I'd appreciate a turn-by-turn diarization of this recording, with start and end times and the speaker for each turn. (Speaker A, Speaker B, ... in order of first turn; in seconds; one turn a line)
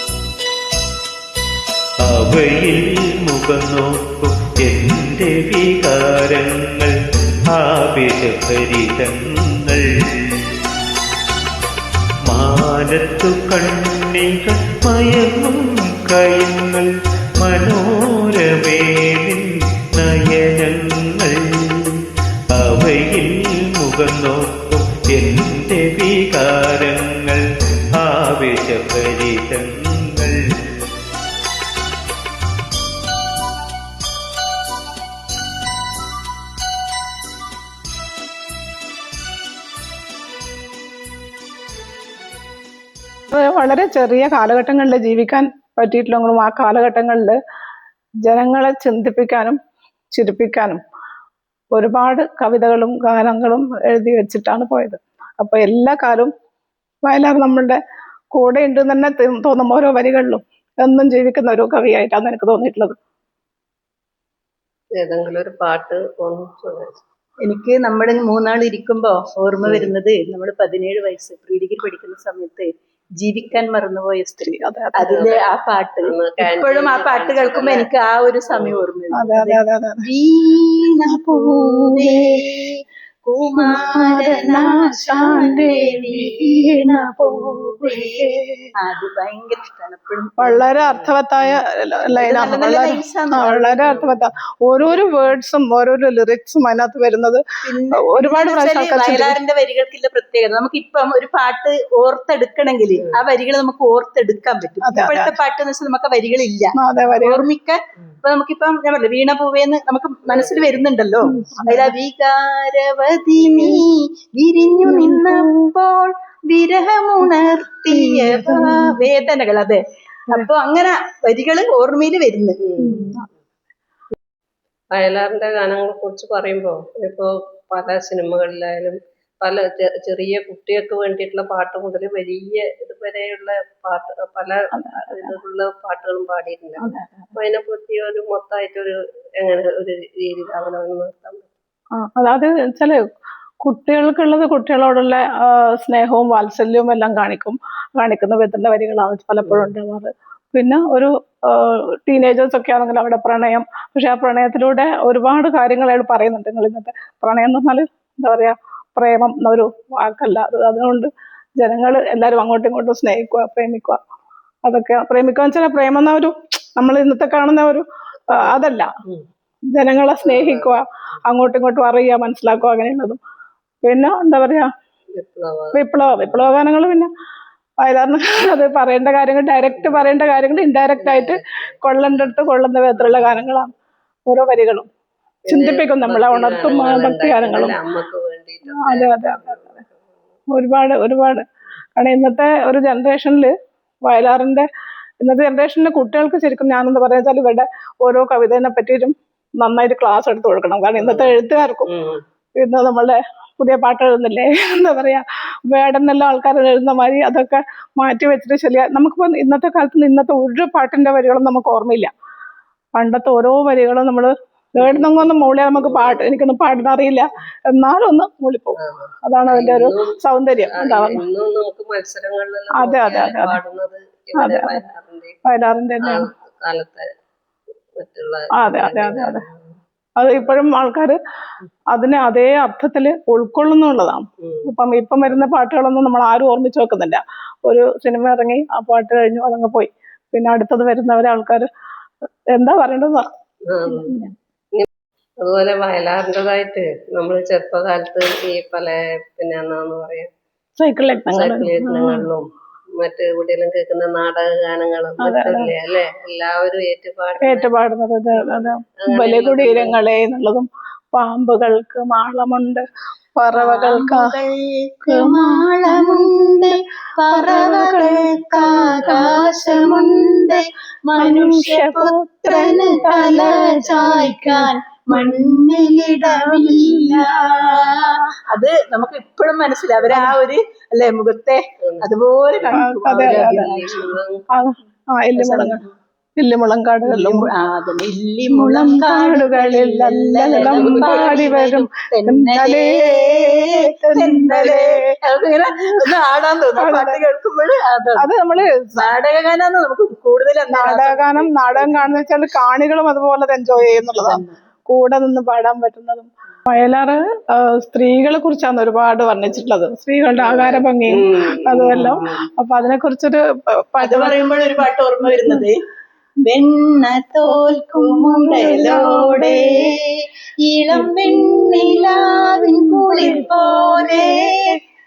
Speaker A: 2.0-7.0
Speaker A: 7.5-10.6
Speaker A: 12.3-22.0
Speaker A: 22.5-27.4
Speaker A: 28.0-30.4
Speaker B: 43.3-47.4
Speaker B: 48.2-49.6
Speaker B: 50.1-50.8
Speaker B: 51.7-56.3
Speaker B: 57.0-57.8
Speaker B: 58.3-63.0
Speaker C: 65.0-67.0
Speaker D: 67.5-72.7
Speaker C: 69.7-69.9
Speaker D: 73.2-88.3
Speaker B: 74.4-75.2
Speaker C: 75.1-77.9
Speaker C: 78.5-78.9
Speaker B: 79.1-80.1
Speaker B: 81.1-82.4
Speaker B: 83.7-88.7
Speaker D: 88.8-91.0
Speaker B: 90.4-97.4
Speaker D: 92.2-94.0
Speaker C: 93.8-94.2
Speaker D: 97.7-122.6
Speaker B: 98.0-99.4
Speaker B: 104.8-105.3
Speaker B: 106.8-107.4
Speaker C: 110.3-110.9
Speaker B: 111.3-112.0
Speaker B: 114.8-115.5
Speaker B: 117.9-118.9
Speaker C: 122.6-123.3
Speaker B: 122.8-123.2
Speaker C: 124.9-141.5
Speaker B: 134.8-135.3
Speaker B: 136.8-137.3
Speaker B: 142.0-143.0
Speaker B: 143.6-164.0
Speaker C: 149.4-149.7
Speaker B: 164.7-168.9
Speaker C: 168.4-169.2
Speaker B: 169.7-173.2
Speaker C: 170.2-170.8
Speaker B: 173.8-174.7
Speaker C: 175.2-176.5
Speaker B: 175.7-177.1
Speaker B: 177.8-183.7
Speaker C: 179.8-180.3
Speaker C: 181.0-182.4
Speaker C: 183.0-183.5
Speaker B: 184.3-184.9
Speaker C: 185.5-190.0
Speaker B: 185.5-187.8
Speaker B: 188.7-189.6
Speaker B: 190.5-191.4
Speaker B: 192.0-193.5
Speaker B: 194.1-194.7
Speaker B: 195.2-201.9
Speaker C: 201.0-202.2
Speaker B: 202.6-212.1
Speaker B: 212.9-221.2
Speaker C: 214.8-216.8
Speaker C: 218.8-225.4
Speaker B: 222.8-223.6
Speaker B: 224.4-224.8
Speaker B: 225.4-226.3
Speaker C: 226.0-227.1
Speaker C: 228.0-229.6
Speaker B: 228.6-229.4
Speaker B: 230.2-231.2
Speaker B: 231.9-241.7
Speaker C: 234.4-234.7
Speaker B: 242.5-243.3
Speaker C: 243.7-244.2
Speaker B: 243.8-244.3
Speaker C: 245.4-250.3
Speaker B: 250.8-252.3
Speaker C: 251.3-252.5
Speaker C: 253.0-257.7
Speaker B: 255.2-255.7
Speaker B: 257.4-262.9
Speaker C: 258.4-260.0
Speaker B: 263.4-264.3
Speaker D: 263.6-284.0
Speaker B: 265.1-266.3
Speaker B: 267.3-268.3
Speaker C: 268.5-269.9
Speaker B: 269.0-270.4
Speaker B: 271.2-277.3
Speaker C: 272.6-274.2
Speaker B: 280.1-280.4
Speaker C: 282.6-284.4
Speaker B: 282.7-283.7
Speaker B: 284.6-285.8
Speaker D: 285.4-285.9
Speaker B: 286.4-287.5
Speaker D: 287.1-298.3
Speaker B: 288.5-295.2
Speaker C: 290.6-291.5
Speaker B: 296.8-297.2
Speaker B: 298.2-299.1
Speaker D: 298.9-302.2
Speaker B: 300.7-313.4
Speaker D: 303.8-304.6
Speaker C: 310.4-312.4
Speaker B: 313.9-314.4
Speaker D: 314.0-315.8
Speaker B: 315.3-315.7
Speaker D: 316.5-320.1
Speaker B: 317.5-319.9
Speaker D: 320.7-324.8
Speaker B: 320.9-324.8